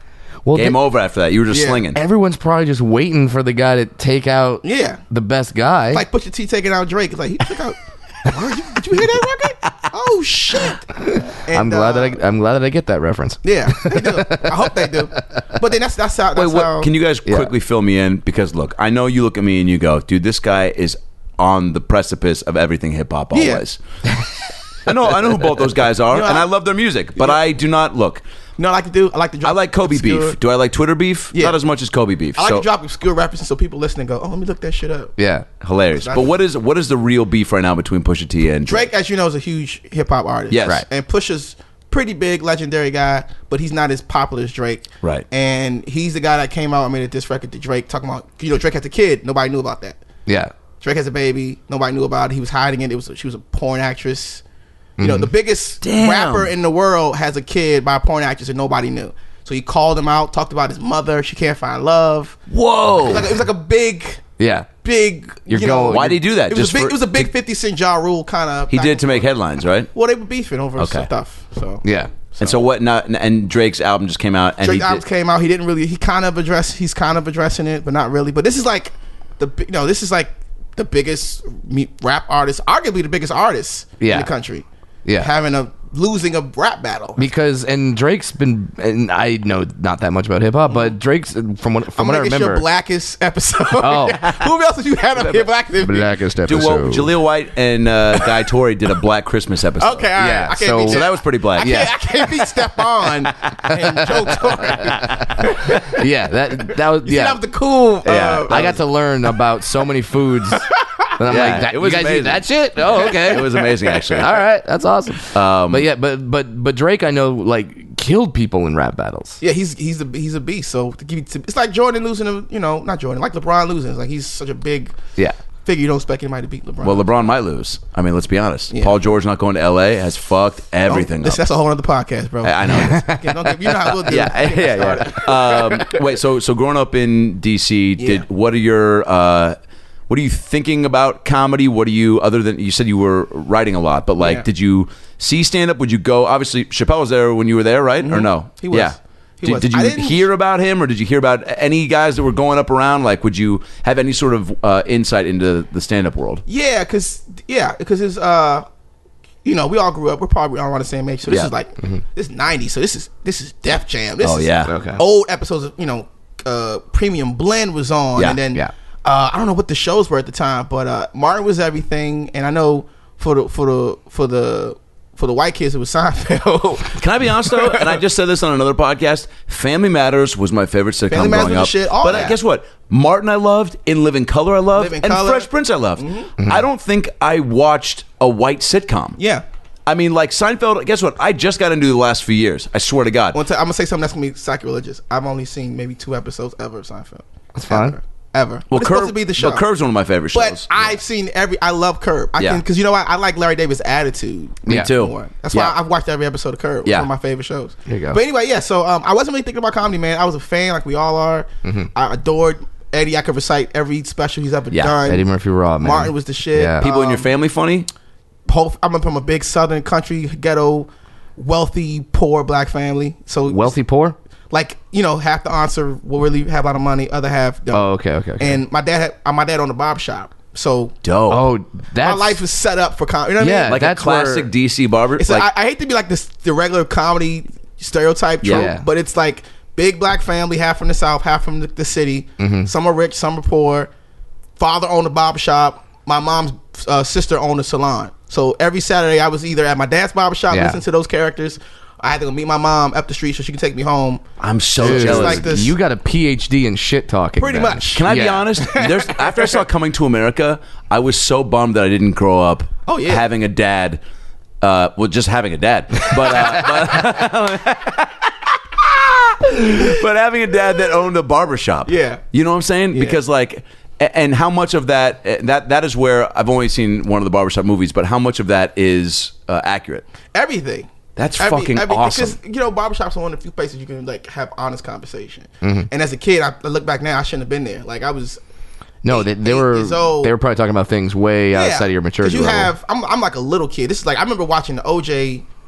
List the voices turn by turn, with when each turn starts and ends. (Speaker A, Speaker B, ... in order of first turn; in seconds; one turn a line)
Speaker A: 0.4-0.8
Speaker B: 0.5-2.0
Speaker C: 1.5-1.8
Speaker A: 1.9-6.0
Speaker C: 4.6-5.0
Speaker C: 5.9-12.2
Speaker A: 11.0-15.4
Speaker C: 13.4-16.9
Speaker B: 16.3-23.8
Speaker A: 17.2-17.5
Speaker C: 23.3-23.6
Speaker B: 24.8-28.2
Speaker C: 26.1-26.5
Speaker C: 28.6-30.4
Speaker B: 29.4-32.6
Speaker C: 32.4-35.1
Speaker A: 35.2-35.5
Speaker B: 35.6-38.9
Speaker C: 36.0-36.3
Speaker C: 38.6-50.0
Speaker B: 40.5-40.8
Speaker A: 50.2-50.5
Speaker C: 50.8-54.4
Speaker A: 55.0-55.3
Speaker C: 55.0-62.4
Speaker B: 55.8-56.5
Speaker B: 62.5-63.3
Speaker C: 63.0-64.2
Speaker A: 64.4-64.7
Speaker C: 64.8-69.3
Speaker A: 65.5-66.2
Speaker B: 65.8-67.3
Speaker B: 68.7-69.9
Speaker C: 69.9-72.6
Speaker B: 70.8-71.1
Speaker A: 71.8-72.1
Speaker B: 72.4-75.0
Speaker C: 74.6-84.6
Speaker A: 84.0-84.3
Speaker A: 85.0-85.3
Speaker C: 85.2-87.2
Speaker A: 87.2-92.6
Speaker C: 90.7-90.9
Speaker C: 92.0-96.6
Speaker A: 93.8-94.2
Speaker B: 95.2-95.5
Speaker A: 95.8-97.1
Speaker B: 96.4-100.1
Speaker C: 99.8-106.0
Speaker A: 100.2-101.9
Speaker B: 100.8-101.9
Speaker B: 104.8-105.4
Speaker A: 104.9-107.4
Speaker C: 107.0-108.8
Speaker B: 108.0-108.7
Speaker A: 108.5-113.6
Speaker B: 111.2-114.4
Speaker C: 112.9-114.0
Speaker A: 114.2-119.4
Speaker B: 115.3-115.9
Speaker C: 119.4-124.9
Speaker C: 125.6-127.1
Speaker B: 126.8-131.4
Speaker C: 128.7-129.0
Speaker C: 130.9-136.0
Speaker B: 132.4-133.1
Speaker A: 132.7-133.5
Speaker B: 133.8-139.6
Speaker C: 138.0-138.2
Speaker B: 140.1-156.4
Speaker C: 144.2-144.4
Speaker C: 148.0-150.2
Speaker C: 156.5-158.7
Speaker C: 159.4-178.0
Speaker A: 161.3-162.0
Speaker B: 164.2-164.7
Speaker A: 164.6-165.0
Speaker B: 168.1-168.4
Speaker B: 176.9-189.2
Speaker C: 181.1-182.3
Speaker C: 184.7-186.3
Speaker A: 186.4-186.6
Speaker C: 189.2-189.4
Speaker B: 189.8-193.4
Speaker C: 193.3-199.6
Speaker A: 197.5-198.0
Speaker B: 198.7-201.0
Speaker C: 200.3-215.2
Speaker B: 202.4-202.6
Speaker A: 204.7-204.9
Speaker B: 204.7-205.8
Speaker B: 206.8-207.1
Speaker A: 207.9-208.2
Speaker A: 211.6-211.9
Speaker B: 214.7-215.0
Speaker A: 215.0-216.8
Speaker C: 215.8-217.3
Speaker B: 216.8-217.9
Speaker C: 218.5-223.7
Speaker A: 223.5-224.2
Speaker C: 224.5-230.9
Speaker A: 227.7-228.6
Speaker B: 231.0-231.5
Speaker A: 231.3-232.4
Speaker C: 232.0-233.8
Speaker A: 233.4-234.5
Speaker B: 233.7-235.5
Speaker C: 235.2-243.9
Speaker B: 238.4-238.7
Speaker A: 238.5-238.8
Speaker A: 242.4-242.7
Speaker C: 244.6-254.2
Speaker A: 250.5-250.8
Speaker B: 254.4-255.6
Speaker C: 254.8-255.7
Speaker A: 254.8-258.5
Speaker C: 257.4-259.6
Speaker B: 257.9-264.0
Speaker C: 262.9-263.2
Speaker B: 264.6-268.3
Speaker C: 266.3-266.9
Speaker B: 269.4-280.0
Speaker C: 269.6-269.9
Speaker C: 271.9-272.2
Speaker C: 272.9-273.2
Speaker C: 280.3-288.4
Speaker B: 281.1-282.4
Speaker A: 285.6-285.9
Speaker A: 289.0-292.7
Speaker C: 289.1-290.3
Speaker C: 291.5-295.4